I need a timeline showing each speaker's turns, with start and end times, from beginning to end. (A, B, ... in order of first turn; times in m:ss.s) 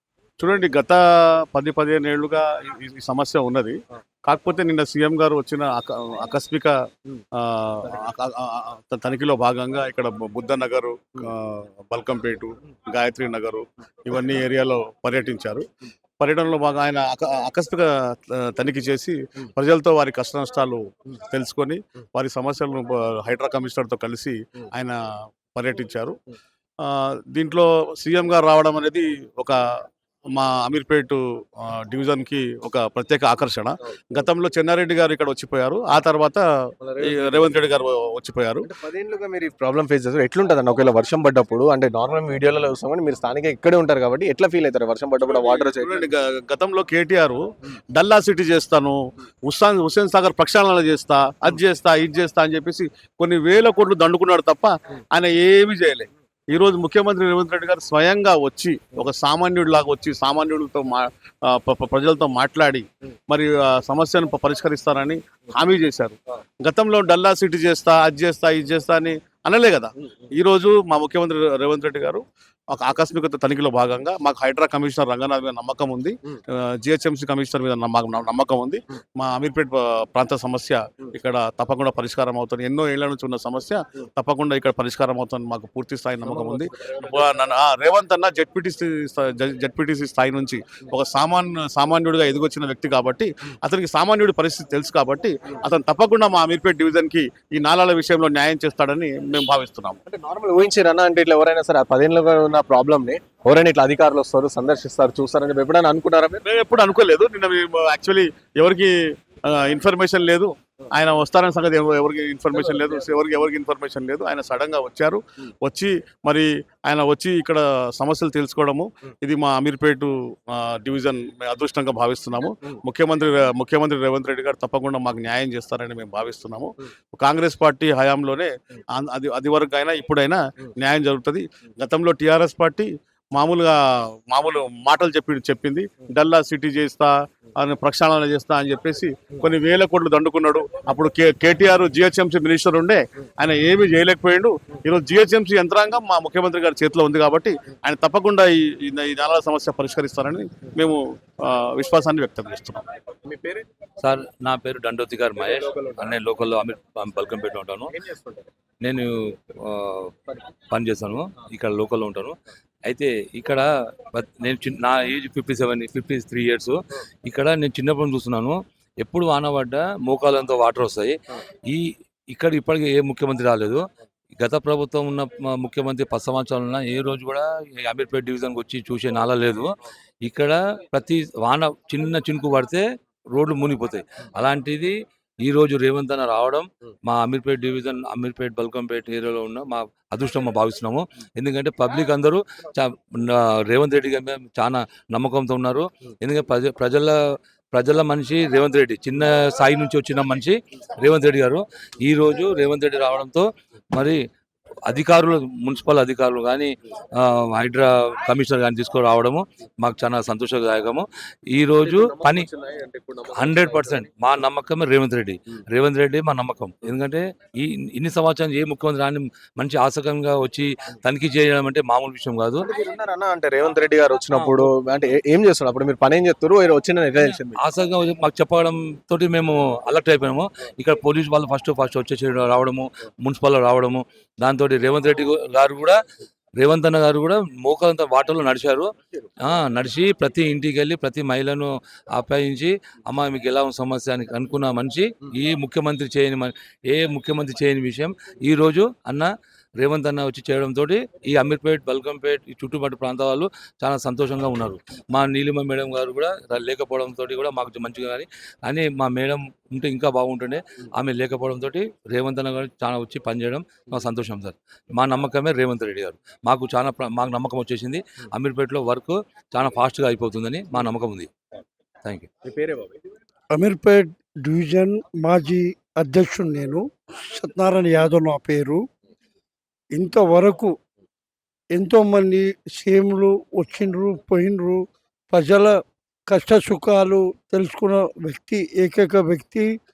0:00.4-0:06.7 A
0:07.4-0:15.7 A
0:16.2-0:25.0 A
0:25.6-0:26.1 A
0:26.8-0:29.6 A
0:30.3-0:36.4 A
0:36.8-0:37.7 B
0:37.1-0:38.7 A
0:38.6-0:46.1 B
0:45.2-0:47.4 A
0:47.9-1:40.0 A
1:26.3-1:27.0 B
1:40.1-1:46.4 B
1:46.4-1:48.9 A
1:49.4-2:13.8 A
1:52.6-1:53.0 B
2:14.3-2:32.9 A
2:33.2-2:33.6 B
2:34.0-2:37.9 C
2:35.4-2:36.1 B
2:37.9-2:38.5 B
2:38.8-2:40.1 C
2:40.7-2:42.4 C
2:42.9-2:51.1 C
2:51.7-2:53.8 C
2:54.4-2:59.7 C
3:00.2-3:17.1 C
3:17.7-3:24.2 C
3:24.9-3:32.5 C
3:31.8-3:34.1 B
3:33.4-3:42.7 C
3:42.6-3:47.6 B
3:44.3-3:44.7 C
3:47.2-3:56.0 C
3:56.6-3:58.9 C
3:59.4-4:31.3 C
4:32.4-4:33.0 B
4:33.5-4:38.8 D
4:39.9-4:40.7 D
4:41.7-4:45.7 D
4:46.3-4:49.7 D